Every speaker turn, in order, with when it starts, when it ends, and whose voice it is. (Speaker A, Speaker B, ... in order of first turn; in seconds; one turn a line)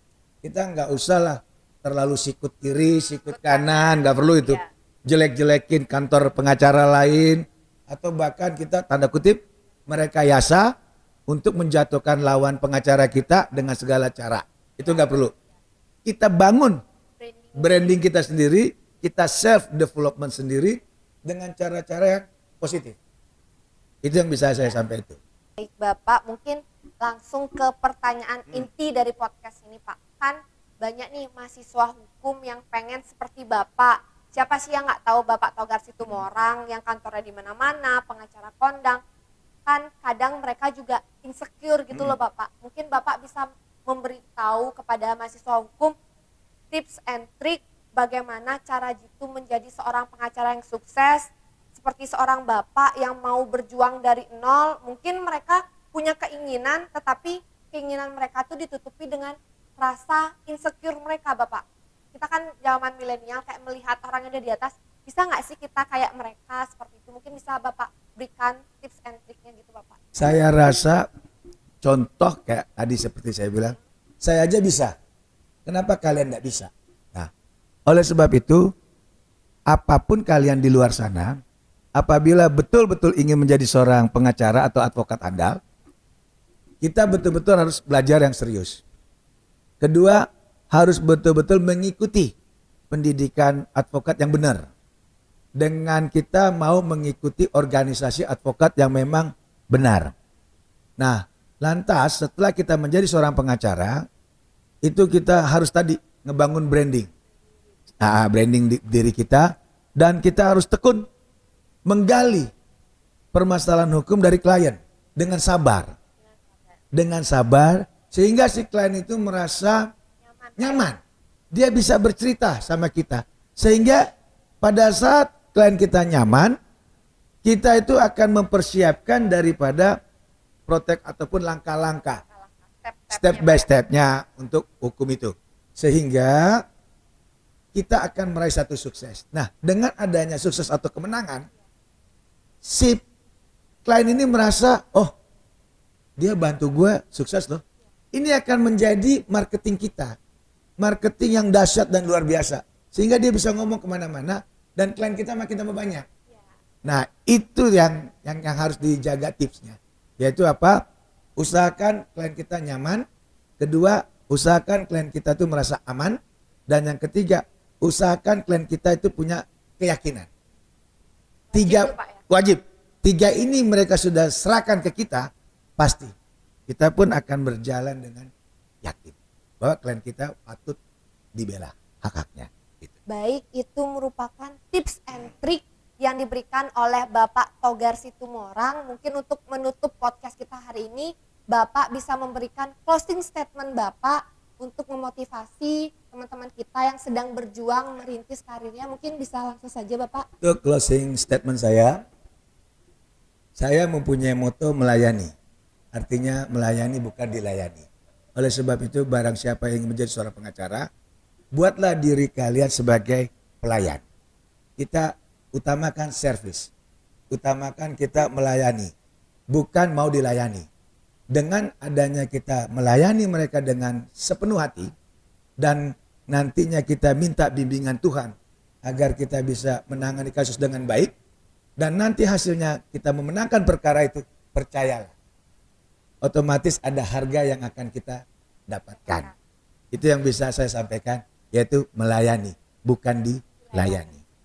Speaker A: 0.4-10.7
Speaker B: 3.4-4.6
Speaker A: 11.3-15.3
Speaker A: 16.0-16.8
Speaker B: 17.2-17.5
Speaker A: 17.5-23.0
Speaker A: 24.0-25.2
Speaker B: 25.6-39.0
Speaker B: 39.7-45.9
Speaker B: 46.7-70.0
Speaker A: 70.1-71.1
Speaker A: 71.8-74.9
Speaker A: 75.7-77.3
Speaker A: 77.9-78.7
Speaker A: 79.7-81.4
Speaker A: 82.0-85.6
Speaker A: 86.8-88.8
Speaker A: 89.8-92.3
Speaker A: 92.9-94.7
Speaker A: 95.6-100.1
Speaker A: 101.0-104.0
Speaker A: 104.8-107.1
Speaker A: 108.0-111.1
Speaker A: 111.8-112.5
Speaker A: 113.3-116.0
Speaker A: 116.9-119.9
Speaker B: 120.3-120.6
Speaker A: 120.6-121.0
Speaker A: 121.5-124.1
Speaker A: 124.6-126.6
Speaker A: 127.4-130.0
Speaker A: 130.7-132.2
Speaker B: 132.2-133.7
Speaker A: 133.1-136.6
Speaker A: 137.7-141.5
Speaker A: 142.6-143.0
Speaker A: 143.8-145.1
Speaker A: 146.2-150.2
Speaker A: 150.8-156.1
Speaker A: 156.8-160.8
Speaker A: 161.4-163.1
Speaker A: 163.6-170.3
Speaker B: 171.5-172.2
Speaker A: 171.5-176.1
Speaker A: 176.7-178.3
Speaker A: 178.8-180.8
Speaker A: 181.3-182.9
Speaker B: 183.1-200.3
Speaker A: 200.4-202.0
Speaker A: 203.6-205.3
Speaker A: 205.9-210.9
Speaker A: 211.5-214.0
Speaker A: 214.8-216.7
Speaker A: 217.3-218.9
Speaker A: 219.5-220.7
Speaker A: 221.3-224.9
Speaker A: 225.6-231.1
Speaker A: 231.8-235.1
Speaker A: 236.2-239.3
Speaker A: 239.9-244.2
Speaker B: 243.7-244.0